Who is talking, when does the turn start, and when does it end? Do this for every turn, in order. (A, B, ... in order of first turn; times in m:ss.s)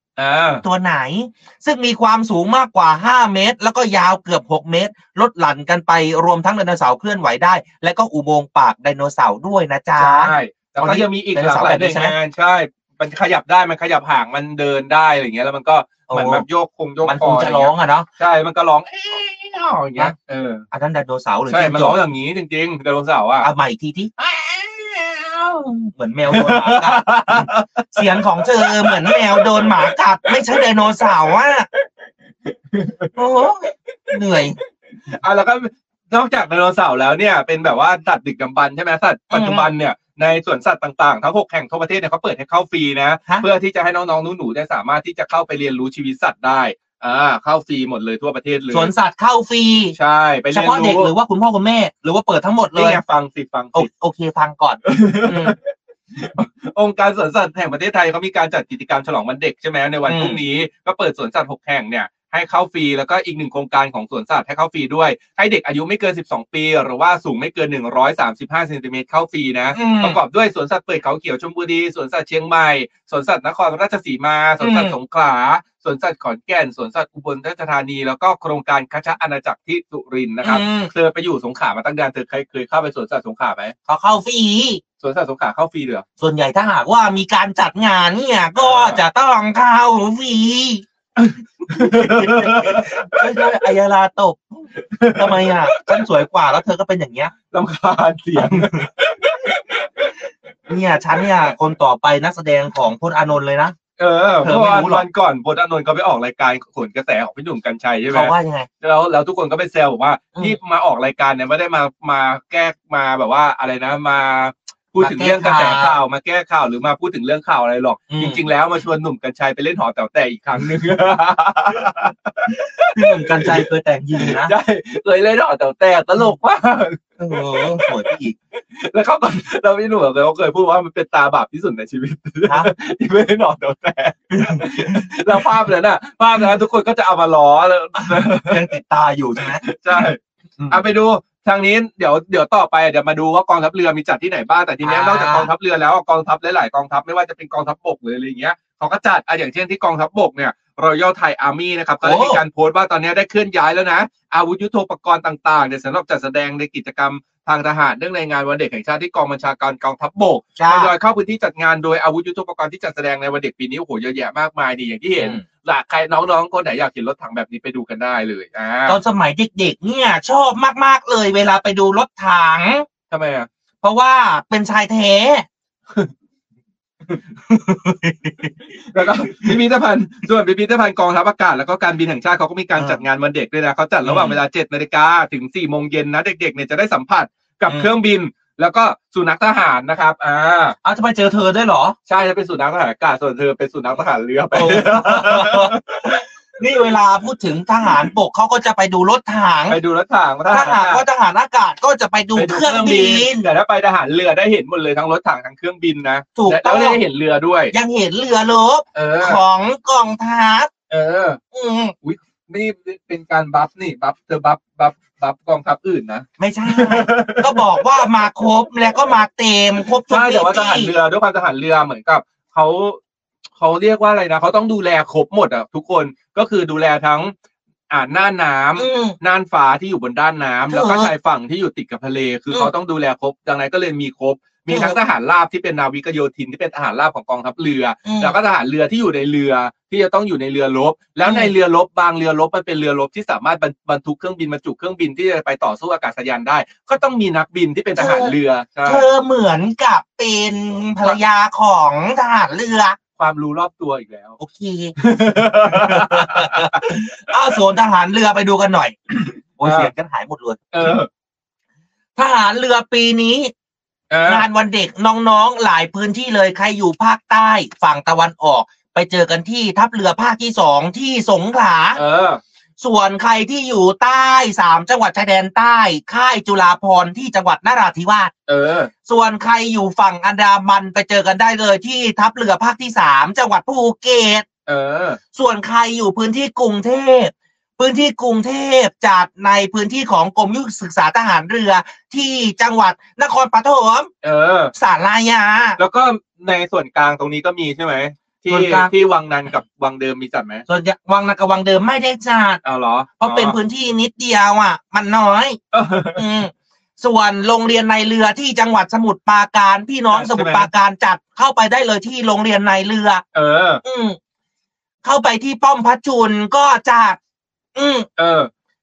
0:00.2-0:00.6 A
0:00.6-0:12.2 B
0:10.0-0:20.6 A
0:16.1-0:16.4 B
0:17.0-0:18.1 B
0:20.7-0:22.0 B
0:21.5-0:23.5 A
0:23.4-0:24.1 B
0:24.2-0:25.3 A
0:25.3-0:31.7 B
0:26.3-0:31.3 A
0:32.7-0:33.2 A
0:33.2-0:34.6 B
0:35.1-0:48.9 A
0:39.3-0:39.7 B
0:48.7-0:50.0 B
0:49.9-0:51.1 A
0:50.5-0:53.0 B
0:52.7-0:53.9 A
0:53.7-0:55.6 B
0:54.9-0:55.6 A
0:56.2-1:23.7 A
1:00.1-1:00.4 B
1:09.7-1:10.2 B
1:14.6-1:14.9 B
1:20.4-1:20.9 B
1:23.9-1:24.8 B
1:25.0-1:26.0 A
1:26.2-1:30.8 B
1:28.6-1:29.0 A
1:31.2-1:33.2 A
1:31.7-1:37.3 B
1:34.9-1:36.0 A
1:37.5-1:40.1 A
1:38.4-1:38.7 B
1:40.7-1:43.7 B
1:44.0-2:08.0 A
1:44.4-1:45.0 B
1:48.1-1:48.7 B
1:55.0-1:56.0 B
1:58.1-1:58.4 B
2:02.9-2:04.5 B
2:07.2-2:08.4 B
2:08.6-2:18.6 A
2:14.4-2:15.1 B
2:18.0-2:20.0 B
2:19.6-2:20.2 A
2:20.7-2:49.0 A
2:24.8-2:25.5 B
2:32.0-2:32.4 B
2:40.6-2:40.9 B
2:45.2-2:45.4 B
2:48.9-2:52.9 B
2:53.1-2:53.5 A
2:53.8-2:55.5 B
2:57.5-2:58.5 B
2:58.9-3:10.8 A
2:59.2-2:59.6 B
3:02.8-3:03.0 B
3:04.0-3:04.4 B
3:10.8-3:12.0 B
3:12.1-3:16.2 A
3:14.5-3:19.8 B
3:19.7-3:21.0 A
3:20.5-3:23.4 B
3:22.4-3:27.7 A
3:26.4-3:27.0 B
3:27.7-3:30.7 B
3:28.9-3:29.4 A
3:30.9-3:31.4 A
3:31.5-3:31.9 B
3:32.0-3:37.8 A
3:36.4-3:40.9 B
3:40.1-3:43.0 A
3:43.6-3:47.3 A
3:47.9-4:09.0 A
3:48.8-3:49.2 B
3:50.7-3:51.1 B
3:54.7-3:55.0 B
3:58.0-3:58.4 B
4:01.2-4:01.5 B
4:08.0-4:13.0 B
4:13.2-4:14.4 A
4:14.4-4:14.9 B
4:15.0-4:17.0 A
4:15.6-4:21.0 B
4:19.6-4:19.9 A
4:20.7-4:21.1 A
4:22.2-4:23.5 B
4:24.1-4:24.5 A
4:24.2-4:32.0 B
4:31.9-4:32.4 A
4:32.8-4:38.3 B
4:38.5-4:38.9 A
4:39.0-4:44.4 B
4:44.7-4:45.2 A
4:45.3-4:54.1 B
4:54.2-4:54.7 A
4:54.7-4:55.8 B
4:55.8-5:00.6 A
4:58.5-4:58.9 B
5:00.7-5:02.6 B
5:02.6-5:03.6 A
5:03.2-5:05.6 B
5:05.7-5:06.2 A
5:06.1-5:13.2 B
5:10.1-5:10.7 A
5:13.3-5:13.8 A
5:13.8-5:14.2 B
5:15.0-5:17.2 B
5:17.7-5:18.1 B
5:18.2-5:18.5 A